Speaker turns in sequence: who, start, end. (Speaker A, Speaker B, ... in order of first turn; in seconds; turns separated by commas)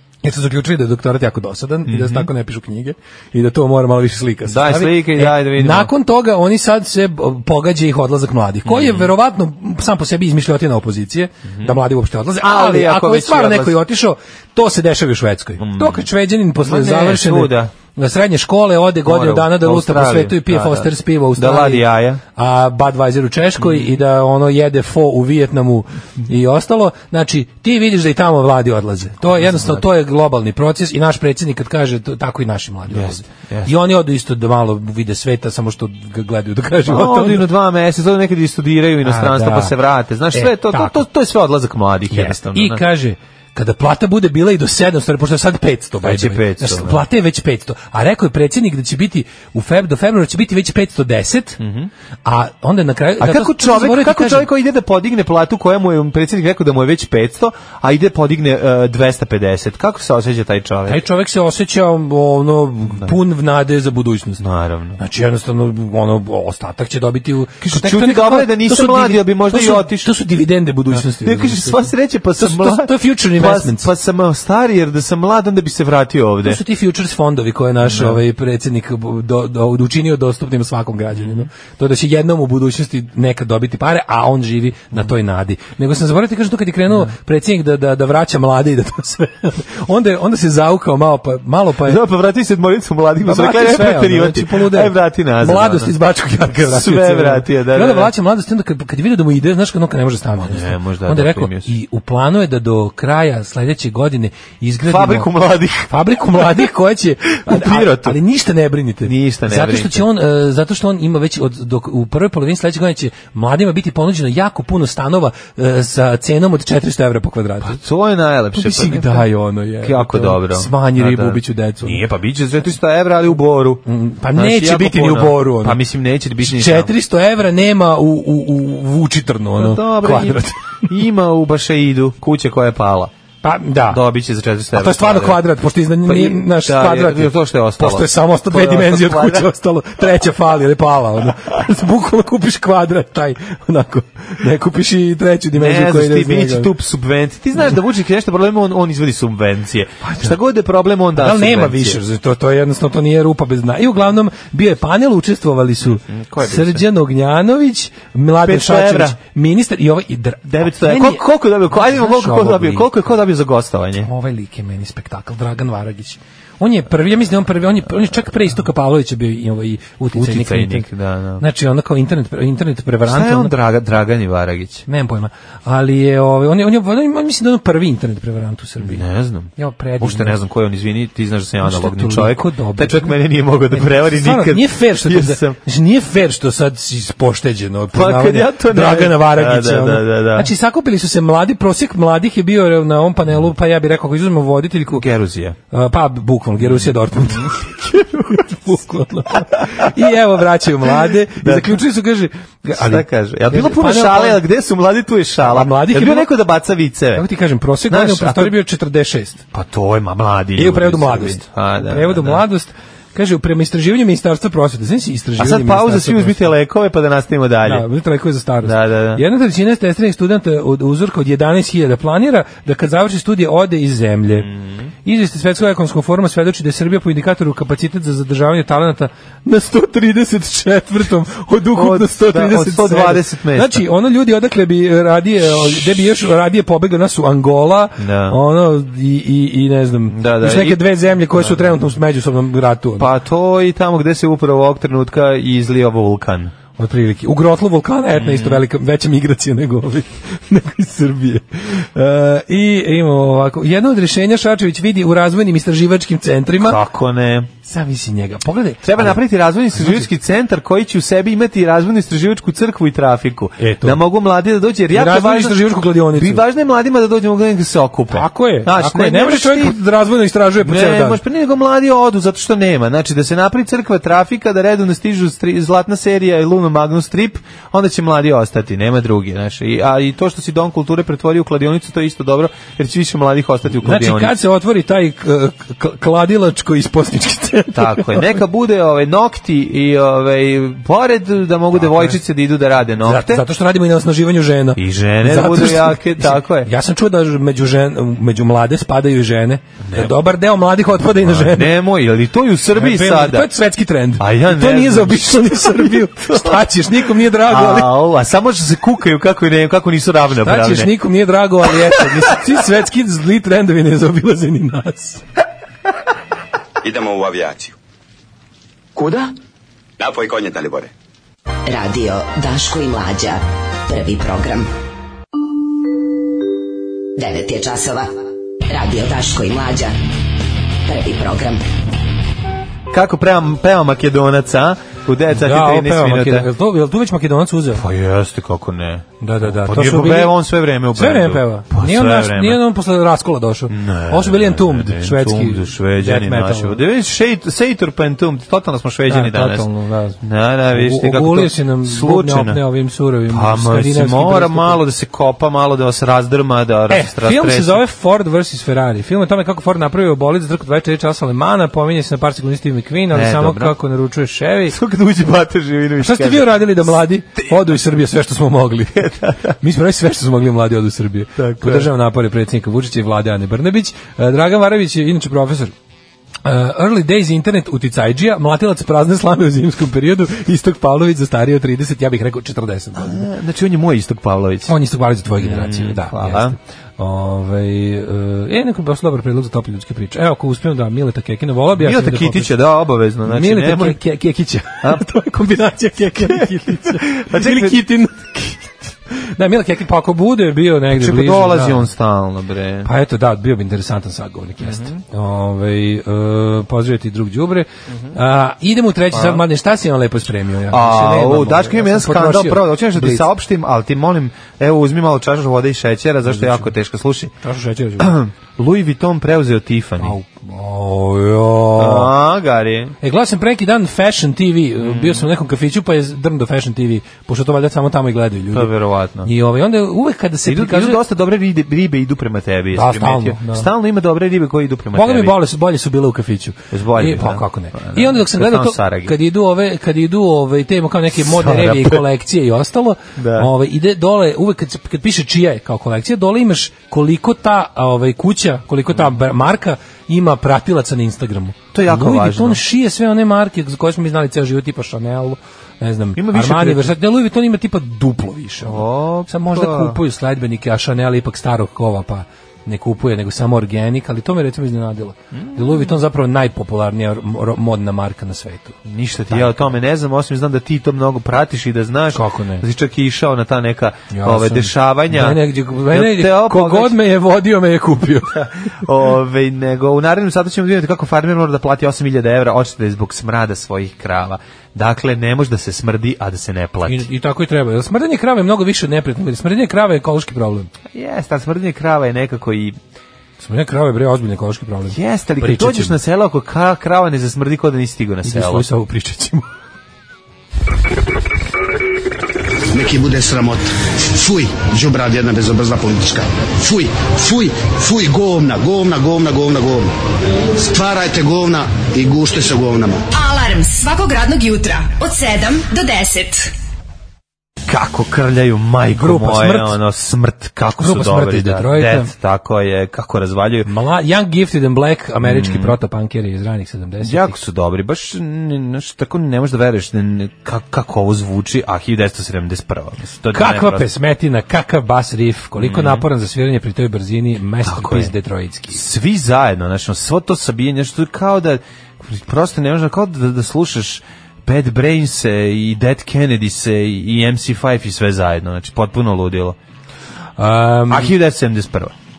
Speaker A: 0.2-37.5, Speaker B: 1.9-2.3, Speaker B: 4.5-5.9, Speaker B: 8.7-9.1, Speaker B: 11.5-11.8, Speaker B: 12.4-13.8, Speaker B: 15.6-16.1, Speaker B: 16.6-17.7, Speaker B: 19.0-22.2, Speaker B: 23.6-24.0, Speaker B: 29.3-29.8, Speaker B: 32.9-33.7, Speaker B: 36.9-42.8, Speaker A: 39.0-39.7, Speaker A: 40.3-41.0, Speaker A: 42.1-51.6, Speaker B: 46.0-47.0, Speaker B: 51.6-51.9, Speaker A: 52.2-54.5, Speaker B: 53.2-61.0, Speaker A: 60.9-64.4, Speaker B: 64.4-65.0, Speaker A: 65.0-73.9, Speaker B: 67.6-70.1, Speaker B: 70.9-76.6, Speaker A: 76.4-92.0, Speaker B: 77.8-78.2, Speaker B: 81.2-81.5, Speaker B: 91.8-95.9, Speaker A: 93.2-105.3, Speaker B: 96.6-98.1, Speaker B: 100.4-101.7, Speaker B: 104.8-106.7, Speaker A: 105.9-117.8, Speaker B: 107.4-108.2, Speaker B: 109.0-110.0, Speaker B: 117.6-119.3, Speaker A: 118.5-122.0, Speaker B: 119.8-126.9, Speaker A: 123.8-125.8, Speaker A: 126.4-130.9, Speaker B: 129.6-133.1, Speaker A: 133.4-134.0, Speaker B: 133.9-135.4, Speaker A: 134.7-146.7, Speaker B: 136.0-139.5, Speaker B: 145.5-152.0, Speaker A: 150.0-150.3, Speaker A: 151.2-162.9, Speaker B: 155.9-156.8, Speaker B: 158.4-159.2, Speaker B: 160.4-164.1, Speaker A: 164.0-173.5, Speaker B: 170.1-171.4, Speaker B: 173.0-174.8, Speaker A: 174.9-179.0, Speaker B: 178.8-185.6, Speaker A: 179.6-180.4, Speaker A: 181.6-183.1, Speaker A: 183.7-195.1, Speaker B: 187.9-190.5, Speaker B: 194.9-195.6, Speaker A: 195.7-204.4, Speaker B: 196.6-197.6, Speaker B: 199.6-199.9, Speaker B: 201.4-201.8, Speaker B: 202.8-207.2, Speaker A: 205.4-206.3, Speaker A: 207.1-209.4, Speaker B: 207.9-208.6, Speaker B: 209.5-212.4, Speaker A: 210.6-216.5, Speaker B: 215.4-217.8, Speaker A: 217.6-224.5, Speaker B: 218.6-219.2, Speaker B: 224.3-224.9, Speaker A: 225.0-243.1, Speaker B: 231.7-233.8, Speaker B: 238.0-238.4, Speaker B: 240.1-241.7, Speaker B: 243.0-246.5, Speaker A: 246.8-256.8, Speaker B: 248.1-248.6, Speaker B: 256.6-257.5, Speaker A: 257.6-259.2, Speaker B: 258.8-269.8, Speaker A: 259.8-260.1, Speaker A: 263.6-264.0, Speaker A: 264.9-266.4, Speaker A: 268.1-271.2, Speaker B: 270.6-284.4, Speaker A: 283.8-288.4, Speaker B: 287.7-293.4, Speaker A: 291.8-292.2, Speaker A: 293.0-301.7, Speaker B: 294.8-296.7, Speaker B: 299.8-300.1, Speaker B: 301.2-303.5, Speaker A: 302.7-307.9, Speaker B: 304.2-306.6, Speaker B: 307.2-310.9, Speaker A: 310.4-315.2, Speaker C: 316.8-317.7, Speaker C: 319.0-319.3, Speaker C: 320.0-320.9, Speaker D: 321.6-324.7, Speaker D: 327.2-329.9, Speaker D: 330.9-331.6, Speaker B: 332.9-336.5, Speaker A: 335.3-337.8, Speaker B: 337.7-342.6, Speaker A: 339.2-340.3, Speaker A: 340.9-346.8, Speaker B: 343.7-349.7, Speaker A: 349.1-350.2, Speaker B: 350.2-352.6, Speaker A: 350.7-354.8, Speaker B: 353.3-357.8, Speaker A: 356.9-364.8, Speaker B: 363.1-363.8, Speaker B: 364.7-366.9, Speaker A: 366.0-375.7, Speaker B: 369.0-369.4, Speaker B: 371.4-371.9, Speaker A: 376.4-383.2, Speaker B: 382.9-384.7, Speaker A: 384.7-392.5, Speaker B: 385.3-386.6, Speaker B: 391.8-394.0, Speaker A: 393.3-401.8, Speaker B: 396.1-397.8, Speaker B: 400.9-402.9, Speaker A: 402.8-413.3, Speaker B: 404.6-405.0, Speaker B: 409.1-409.4, Speaker B: 410.7-417.3, Speaker A: 416.2-416.7, Speaker A: 417.4-418.1, Speaker B: 418.0-420.1, Speaker A: 420.0-422.1, Speaker B: 421.8-422.9, Speaker A: 423.0-428.7, Speaker B: 424.8-425.2, Speaker B: 428.5-429.3, Speaker A: 429.2-431.0, Speaker B: 430.4-435.4, Speaker A: 432.7-433.7, Speaker A: 434.9-469.7, Speaker B: 436.7-439.1, Speaker B: 441.2-442.0, Speaker B: 443.2-443.5, Speaker B: 451.7-452.6, Speaker B: 456.1-456.9, Speaker B: 458.6-460.0, Speaker B: 465.3-465.9, Speaker B: 468.8-477.0, Speaker A: 472.1-472.6, Speaker A: 474.1-478.5, Speaker B: 478.3-487.1, Speaker A: 486.8-490.7, Speaker B: 490.9-492.8, Speaker A: 493.4-495.9, Speaker B: 494.9-498.7, Speaker A: 498.2-499.5, Speaker E: 502.7-509.9, Speaker E: 510.6-513.0, Speaker F: 513.1-516.5, Speaker B: 517.7-523.7, Speaker A: 518.9-519.8, Speaker A: 520.8-522.1, Speaker A: 523.6-527.4, Speaker B: 525.2-525.8, Speaker B: 527.0-533.9, Speaker A: 533.3-538.8, Speaker B: 535.6-536.0, Speaker B: 537.6-538.1, Speaker B: 538.7-549.6, Speaker A: 550.4-551.1, Speaker B: 550.9-551.9